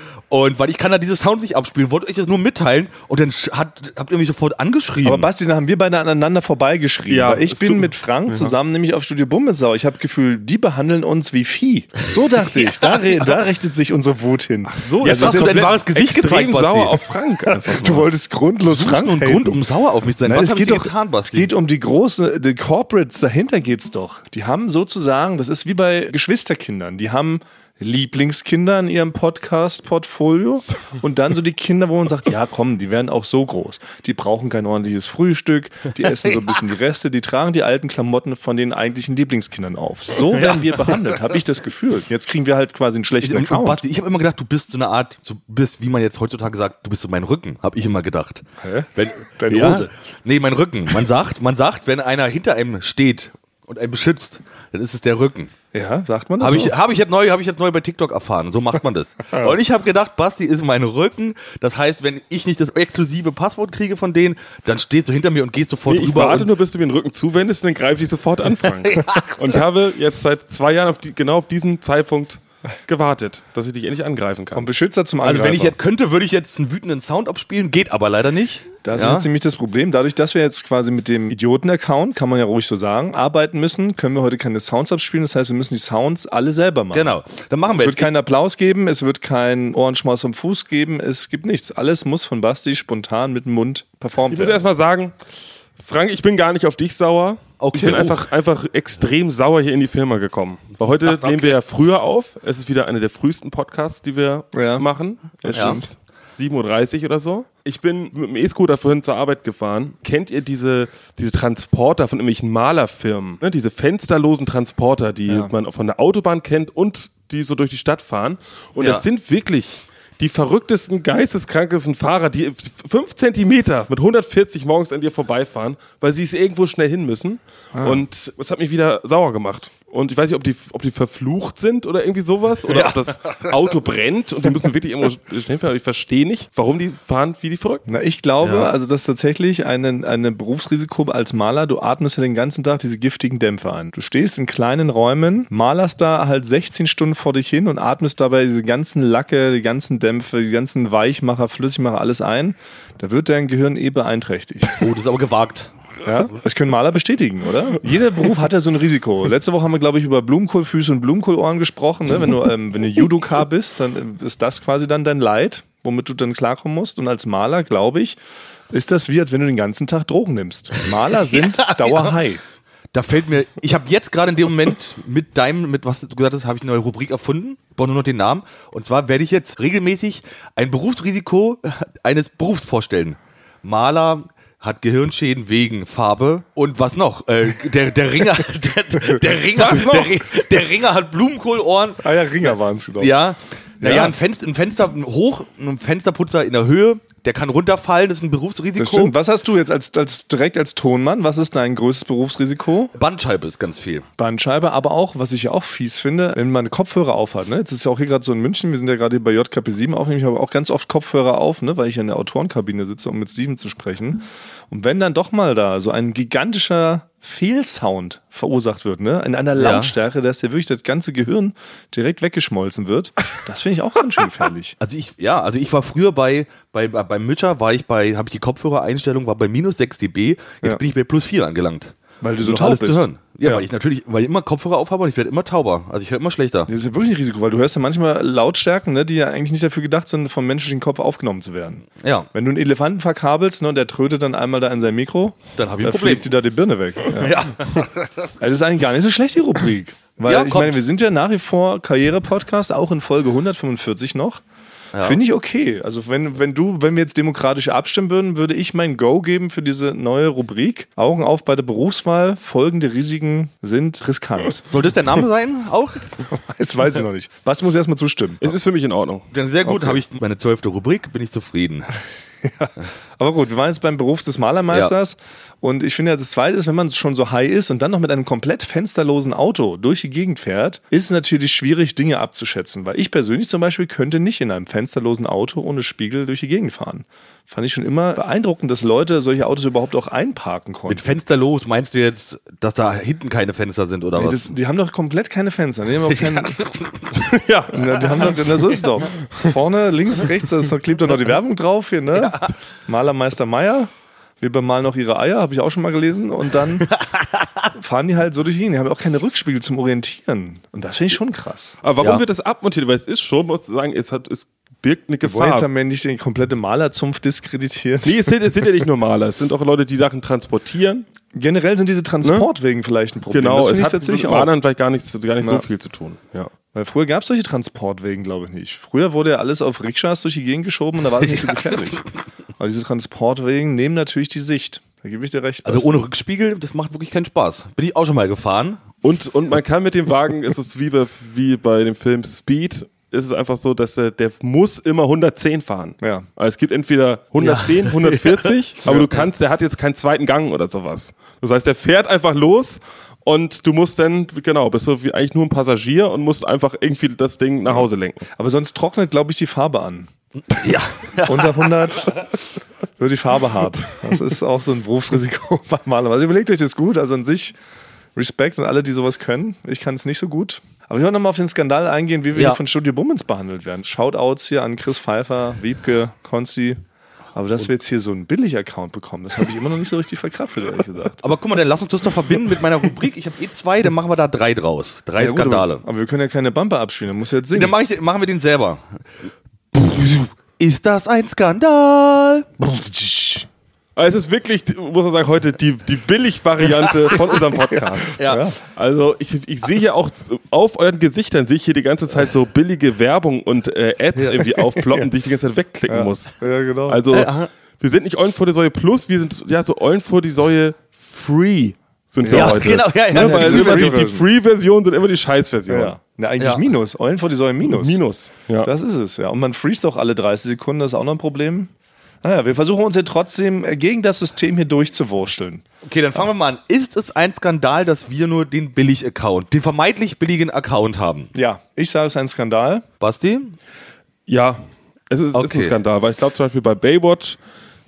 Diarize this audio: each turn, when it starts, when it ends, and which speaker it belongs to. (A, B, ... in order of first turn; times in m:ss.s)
0:00.3-0:05.3 A
0:05.0-0:15.7 B
0:07.1-0:08.6 C
0:12.4-0:13.4 A
0:14.6-0:18.1 C
0:15.0-0:17.0 A
0:17.4-0:19.6 B
0:18.6-0:21.5 A
0:20.2-0:43.8 B
0:40.3-0:41.0 A
0:43.2-0:55.5 A
0:48.6-0:49.9 B
0:55.7-0:56.7 B
0:56.4-1:06.5 A
1:05.9-1:14.7 C
1:08.8-1:09.3 A
1:14.5-1:15.7 B
1:15.2-1:19.3 A
1:18.8-1:27.2 B
1:26.9-1:28.1 A
1:27.7-1:34.6 B
1:34.3-1:35.1 C
1:35.8-2:17.8 C
1:37.6-1:38.2 A
1:37.8-1:38.1 B
1:41.0-1:41.6 A
1:44.5-1:44.9 B
1:45.4-1:45.9 B
1:45.5-1:45.8 A
1:58.8-1:59.0 A
2:07.7-2:08.0 B
2:12.7-2:13.4 A
2:17.9-2:34.9 B
2:18.4-2:18.7 A
2:34.8-2:35.7 A
2:36.0-2:48.2 B
2:48.7-2:52.4 B
2:51.5-2:52.2 A
2:52.9-3:12.0 A
3:09.6-3:10.2 C
3:12.0-3:13.2 B
3:13.0-3:19.1 A
3:13.8-3:14.2 B
3:18.8-3:22.9 B
3:22.9-3:24.1 A
3:24.2-3:44.8 B
3:39.6-3:40.0 A
3:44.8-3:56.7 A
3:52.2-3:53.6 B
3:56.7-4:07.4 B
4:02.0-4:02.3 A
4:05.6-4:06.3 A
4:07.1-4:08.3 A
4:08.4-4:14.4 B
4:10.2-4:10.8 A
4:14.9-4:15.2 A
4:15.0-4:24.6 B
4:24.6-4:26.1 A
4:26.3-4:28.6 B
4:28.4-4:29.3 C
4:29.3-4:31.9 A
4:32.4-4:51.0 B
4:50.9-4:54.5 A
4:54.2-4:56.6 B
4:56.1-4:57.1 A
4:57.1-4:58.6 C
4:57.7-5:03.9 B
5:02.2-5:02.5 A
5:04.4-5:06.9 B
5:06.9-5:07.6 A
5:07.7-5:11.8 B
5:11.8-5:15.7 C
5:15.2-5:18.8 B
5:18.0-5:21.1 C
5:21.3-5:24.5 B
5:23.3-5:26.5 C
5:26.7-5:32.1 B
5:32.6-5:36.0 B
5:35.6-5:38.8 A
5:39.0-5:58.2 C
5:46.0-5:46.2 B
5:47.4-5:48.5 A
5:48.9-5:49.1 B
5:57.7-6:00.1 B
6:00.5-6:02.2 A
6:01.2-6:02.4 B
6:03.0-6:07.6 B
6:08.2-6:16.8 B
6:17.3-6:21.2 B
6:21.2-6:25.8 A
6:25.2-6:27.8 B
6:27.5-6:28.8 A
6:29.7-6:32.5 A
6:32.6-6:33.5 B
6:34.0-6:56.0 C
6:37.7-6:38.6 B
6:38.1-6:38.4 A
6:44.4-6:45.1 B
6:45.9-6:47.1 B
6:47.1-6:47.5 A
6:52.2-6:54.2 B
6:52.3-6:54.0 A
6:55.7-6:58.0 B
6:56.4-6:56.6 A
6:57.6-6:58.7 C
6:58.6-7:01.7 B
7:02.2-7:05.6 B
7:05.8-7:11.3 A
7:11.3-7:12.8 B
7:13.0-7:13.6 A
7:14.3-7:17.4 C
7:15.3-7:15.8 A